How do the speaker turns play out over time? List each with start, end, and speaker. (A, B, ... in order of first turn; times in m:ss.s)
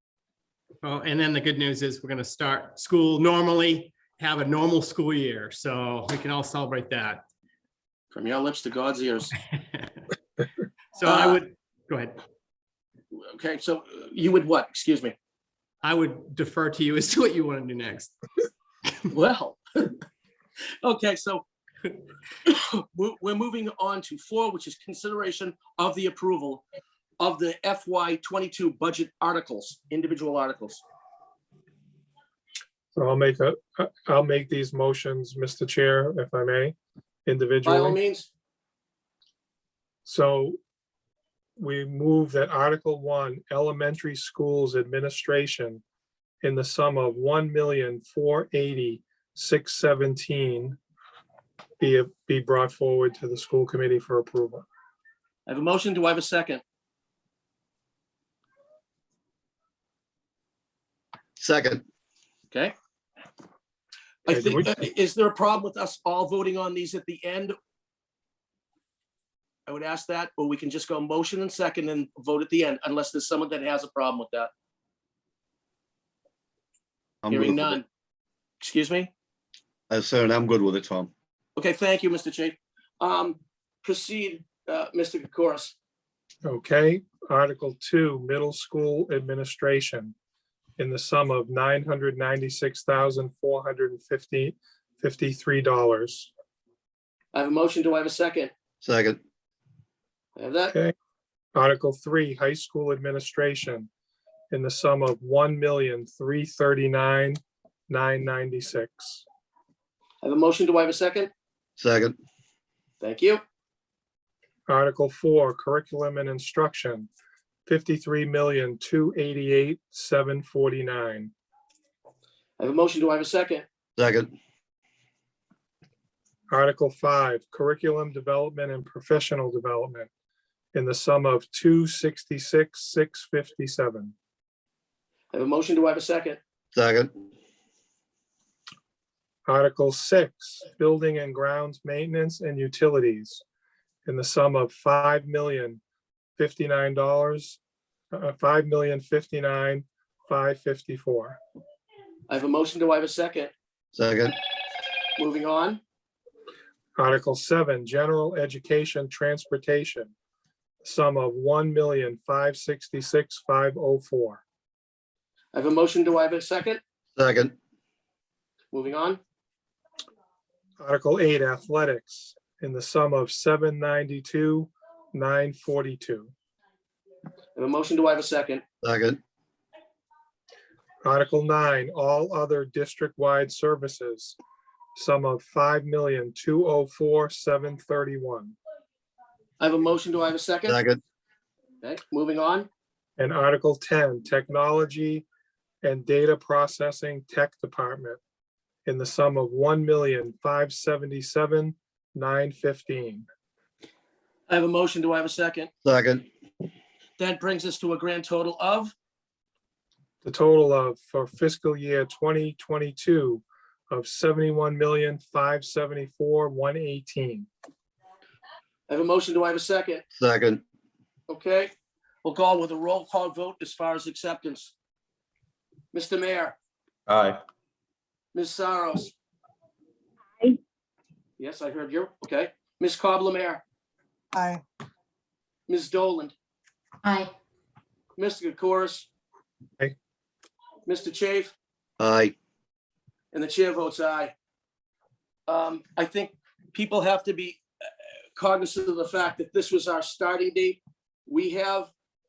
0:00.8-0:07.2 A
0:08.1-0:09.3 B
0:11.0-0:12.2 A
0:11.0-0:11.4 B
0:13.2-0:15.1 B
0:15.8-0:18.1 A
0:19.1-0:19.9 B
0:20.8-0:21.4 B
0:22.4-0:26.6 B
0:27.2-0:30.8 B
0:33.0-0:38.0 C
0:37.6-0:38.3 B
0:40.0-0:40.6 C
0:41.6-0:45.8 C
0:46.4-0:50.8 C
0:51.8-0:54.6 C
0:55.5-0:56.6 B
1:01.4-1:01.8 D
1:04.2-1:07.6 B
1:04.3-1:04.8 C
1:09.7-1:14.5 B
1:17.2-1:17.7 D
1:17.3-1:17.8 B
1:18.6-1:19.1 B
1:19.9-1:21.1 D
1:21.6-1:25.7 B
1:26.4-1:30.1 C
1:30.8-1:36.3 C
1:37.3-1:38.5 B
1:38.8-1:39.2 D
1:40.4-1:40.8 B
1:41.5-1:43.9 C
1:44.5-1:49.2 C
1:50.2-1:51.3 B
1:51.8-1:52.2 D
1:53.0-1:53.4 B
1:54.7-1:57.1 C
1:57.7-2:01.3 C
2:02.6-2:03.6 B
2:04.0-2:04.3 D
2:06.5-2:10.1 C
2:10.7-2:14.1 C
2:15.3-2:16.4 B
2:16.7-2:17.1 D
2:19.5-2:23.4 C
2:24.0-2:25.8 C
2:26.4-2:27.6 C
2:28.1-2:31.4 C
2:32.3-2:33.5 B
2:33.9-2:34.3 D
2:35.2-2:35.8 B
2:37.0-2:40.1 C
2:40.8-2:44.4 C
2:45.5-2:46.8 B
2:47.2-2:47.5 D
2:48.7-2:49.2 B
2:50.8-2:56.3 C
2:57.6-2:58.6 B
2:58.8-2:59.2 D
3:01.0-3:04.4 C
3:05.0-3:08.6 C
3:09.6-3:10.8 B
3:10.7-3:11.0 D
3:11.8-3:12.7 B
3:13.2-3:15.2 C
3:15.8-3:18.2 C
3:18.8-3:23.2 C
3:24.5-3:25.7 B
3:25.8-3:26.2 D
3:27.2-3:28.9 B
3:30.2-3:37.5 C
3:38.9-3:40.0 B
3:40.1-3:40.6 D
3:41.3-3:41.7 B
3:42.2-3:44.7 B
3:45.9-3:46.6 B
3:47.1-3:47.3 D
3:48.3-3:49.1 B
3:51.4-3:53.6 B
3:55.7-3:56.3 B
3:58.2-3:59.1 B
4:00.9-4:01.5 B
4:02.0-4:02.3 D
4:03.3-4:04.3 B
4:05.5-4:07.6 B
4:08.4-4:11.9 B